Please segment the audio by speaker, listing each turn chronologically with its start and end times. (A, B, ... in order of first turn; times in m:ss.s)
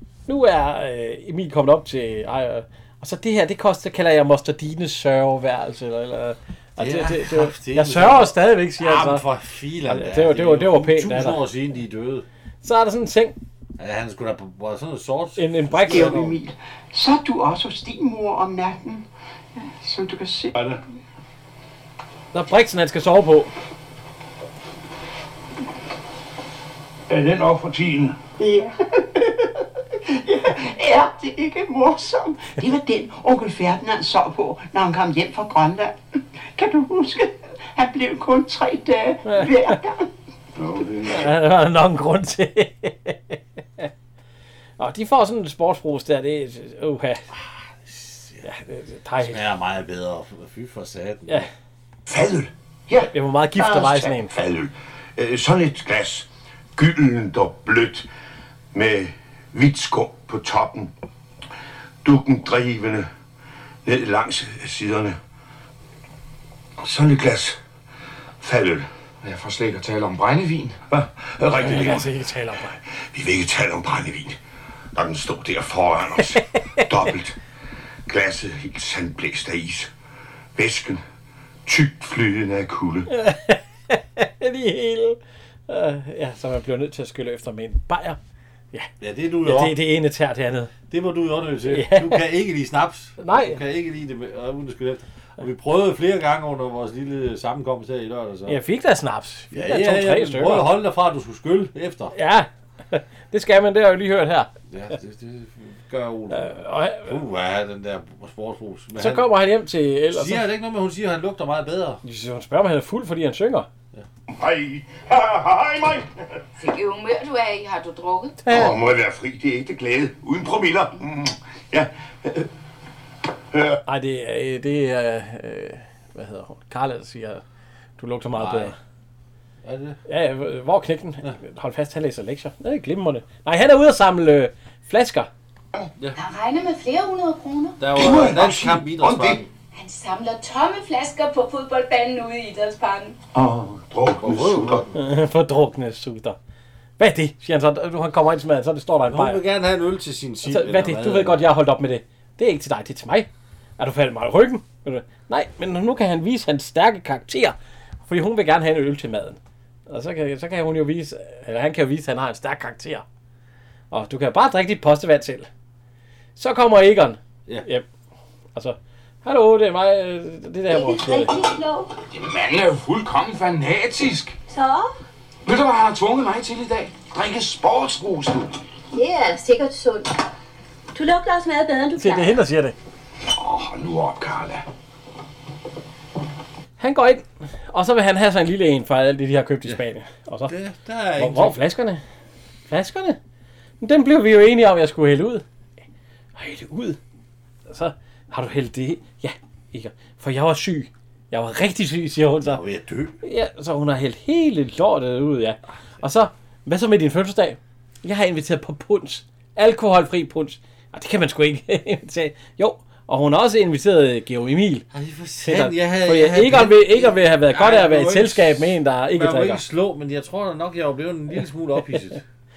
0:00.3-0:09.2 A
0:06.8-0:12.2 B
0:09.9-0:11.4 A
0:12.6-0:13.4 A
0:13.8-0:16.2 B
0:15.4-0:16.3 A
0:15.8-0:20.6 C
0:22.3-0:23.5 A
0:27.1-0:28.2 D
0:28.4-0:29.5 C
0:30.0-0:40.1 C
0:40.6-0:41.3 D
0:41.0-0:43.9 A
0:44.8-0:47.2 A
0:47.8-0:48.4 B
0:48.4-0:49.4 A
0:49.2-0:51.4 B
0:52.1-0:52.5 D
0:53.0-0:54.3 A
0:53.6-0:58.1 D
0:58.7-1:00.9 D
1:02.0-1:03.1 D
1:03.8-1:05.2 D
1:06.8-1:07.6 D
1:08.4-1:08.9 D
1:09.2-1:10.8 E
1:10.9-1:12.1 D
1:11.5-1:12.8 A
1:13.1-1:14.4 D
1:14.9-1:17.4 D
1:18.1-1:19.9 D
1:20.5-1:21.0 D
1:21.6-1:23.1 D
1:23.1-1:28.2 A
1:29.0-1:29.8 B
1:29.4-1:30.7 A
1:30.9-1:38.6 B
1:31.7-1:32.2 A
1:33.2-1:33.6 A
1:38.5-1:40.7 A
1:39.5-1:42.2 B
1:42.1-1:44.5 A
1:44.7-1:49.3 B
1:46.3-1:47.2 A
1:49.0-1:50.5 A
1:50.1-1:52.0 B
1:52.0-1:53.7 A
1:54.3-1:56.1 D
1:56.6-1:58.4 F
1:58.5-1:58.7 A
1:58.5-2:02.5 D
2:03.5-2:03.8 D
2:03.9-2:07.4 A
2:08.0-2:08.8 A
2:08.3-2:08.7 B
2:09.6-2:10.0 B
2:10.1-2:15.3 A
2:16.2-2:17.9 F
2:17.8-2:19.5 B
2:17.9-2:19.4 D
2:19.7-2:23.2 F
2:23.3-2:24.8 D
2:24.2-2:24.9 B
2:24.9-2:26.4 A
2:27.0-2:29.4 A
2:29.1-2:31.4 B
2:30.4-2:33.3 A
2:33.8-2:37.6 A
2:38.1-2:43.0 A
2:43.9-2:45.5 A
2:46.4-2:47.8 A
2:48.5-2:51.3 A
2:50.7-2:51.9 G
2:52.1-2:54.4 E
2:54.5-2:54.9 G
2:55.4-2:58.6 E
2:58.9-3:00.2 G
3:00.9-3:02.4 G
3:02.0-3:02.7 A
3:03.3-3:04.6 E
3:06.8-3:10.5 A
3:10.5-3:11.6 B
3:11.2-3:12.0 A
3:12.7-3:13.2 A
3:13.8-3:15.4 A
3:16.4-3:17.0 A
3:17.7-3:22.6 A
3:22.5-3:23.1 B
3:23.2-3:34.8 A
3:34.9-3:42.2 B
3:35.4-3:39.6 A